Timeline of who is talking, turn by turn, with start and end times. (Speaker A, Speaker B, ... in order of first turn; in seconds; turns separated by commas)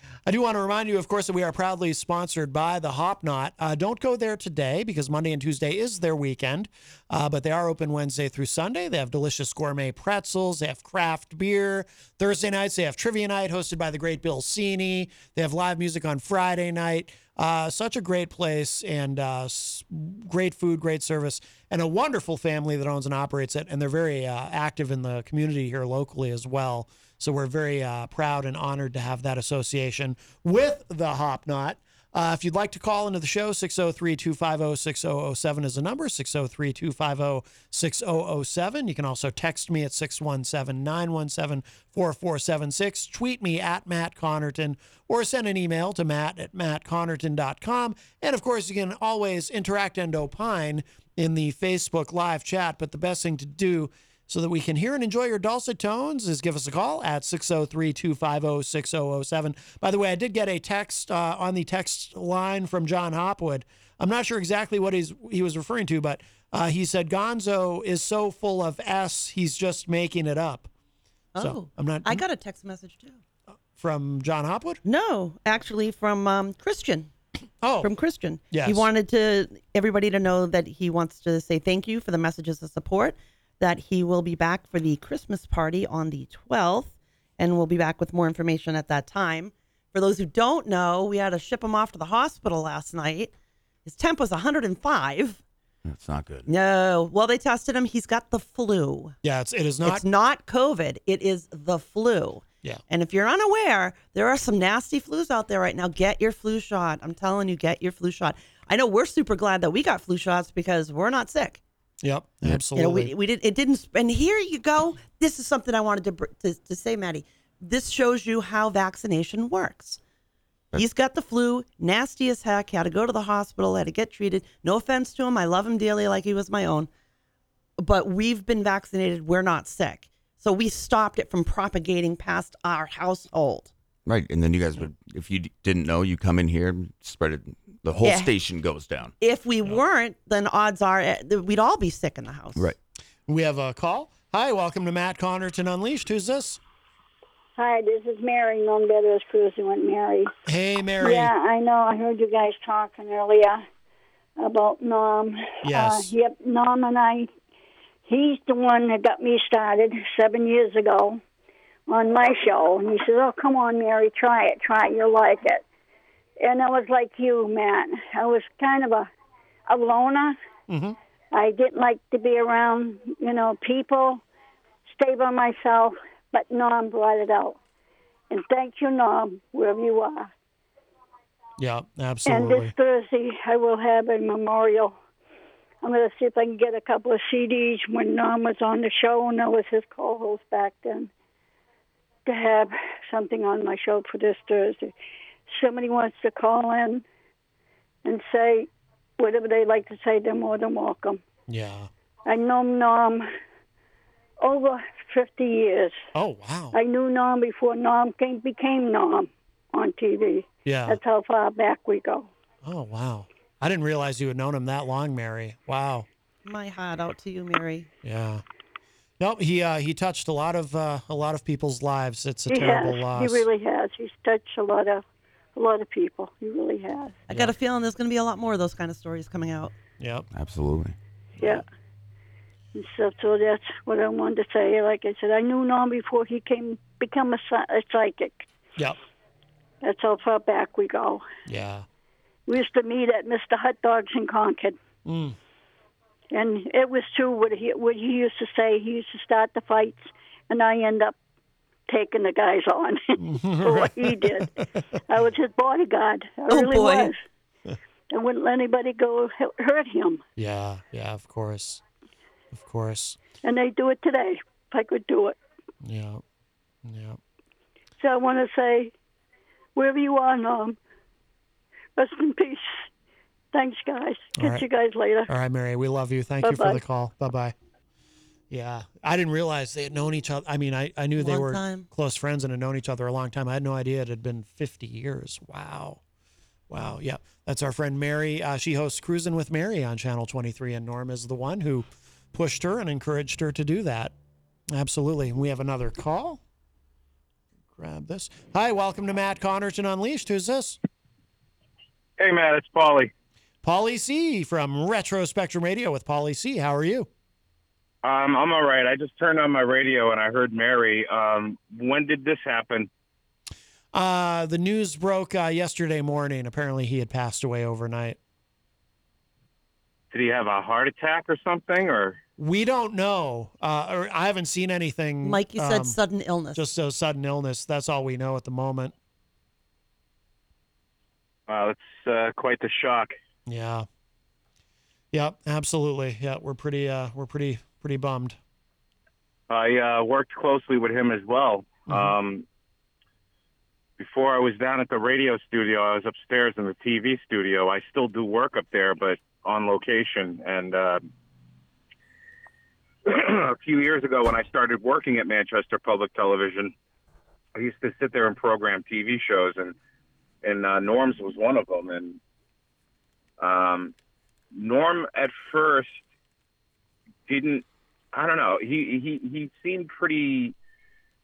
Speaker A: 0.2-70.7, Speaker B: 71.3-73.2, Speaker A: 71.4-72.2, Speaker A: 73.7-74.8, Speaker B: 74.8-77.1, Speaker A: 77.6-77.9, Speaker B: 77.8-93.3, Speaker A: 78.5-78.9, Speaker B: 93.8-95.4, Speaker C: 95.8-96.5, Speaker B: 96.5-99.2, Speaker A: 99.2-100.0, Speaker B: 99.8-111.6, Speaker A: 112.0-113.1, Speaker B: 112.7-120.0, Speaker B: 120.7-126.9, Speaker B: 127.8-133.7, Speaker C: 134.1-139.1, Speaker B: 138.0-138.3, Speaker B: 139.2-142.7, Speaker A: 143.3-146.6, Speaker D: 147.6-150.3, Speaker A: 150.4-151.3, Speaker D: 151.0-153.6, Speaker D: 154.4-157.3, Speaker A: 155.6-156.1, Speaker D: 158.1-161.2, Speaker D: 161.9-165.6, Speaker D: 166.4-169.1, Speaker D: 169.7-170.4, Speaker A: 170.7-171.0, Speaker D: 171.3-174.2, Speaker D: 174.9-177.6, Speaker D: 178.3-180.3, Speaker A: 181.6-182.7, Speaker D: 182.2-184.9, Speaker D: 185.8-191.1, Speaker D: 192.2-194.9, Speaker D: 195.5-197.0, Speaker D: 198.0-201.2, Speaker A: 201.5-201.9, Speaker D: 202.2-203.3, Speaker D: 204.4-206.1, Speaker A: 206.1-206.8, Speaker D: 206.7-212.3, Speaker A: 210.6-211.0, Speaker A: 212.6-216.1, Speaker B: 216.4-217.9, Speaker A: 218.0-218.4, Speaker A: 219.2-223.4, Speaker D: 222.5-225.0, Speaker D: 225.6-227.2, Speaker B: 227.3-229.7, Speaker A: 230.0-230.2, Speaker C: 230.3-230.9, Speaker D: 232.7-238.4, Speaker D: 239.8-241.2, Speaker A: 241.5-241.8, Speaker D: 242.5-244.8, Speaker A: 245.0-245.4, Speaker D: 246.3-251.1, Speaker D: 251.9-254.5, Speaker A: 253.2-254.8, Speaker D: 255.1-257.2, Speaker B: 256.5-257.1, Speaker D: 258.1-260.2, Speaker A: 260.4-261.8, Speaker A: 262.5-263.2, Speaker D: 263.4-265.4, Speaker A: 265.8-266.2, Speaker A: 266.8-267.2, Speaker D: 268.0-268.9, Speaker D: 269.8-270.8, Speaker D: 272.0-272.9, Speaker D: 273.5-275.3, Speaker A: 274.4-274.6, Speaker A: 275.3-277.5, Speaker D: 276.4-276.8, Speaker A: 278.5-286.0, Speaker B: 281.2-281.9, Speaker A: 286.7-294.1, Speaker A: 294.7-296.4, Speaker A: 297.7-300.8, Speaker E: 302.2-303.1, Speaker A: 303.6-307.1, Speaker E: 308.0-312.9, Speaker A: 313.9-318.2, Speaker E: 320.1-322.2, Speaker A: 322.4-326.0, Speaker B: 325.2-326.6, Speaker A: 326.5-328.9, Speaker E: 331.5-333.1, Speaker A: 333.4-333.9, Speaker A: 335.1-338.4, Speaker E: 339.5-342.4, Speaker A: 341.9-342.1, Speaker E: 344.0-351.1, Speaker E: 353.1-356.7, Speaker E: 357.5-359.7, Speaker E: 360.4-362.2, Speaker E: 363.4-363.9, Speaker E: 364.5-366.0, Speaker E: 367.3-370.5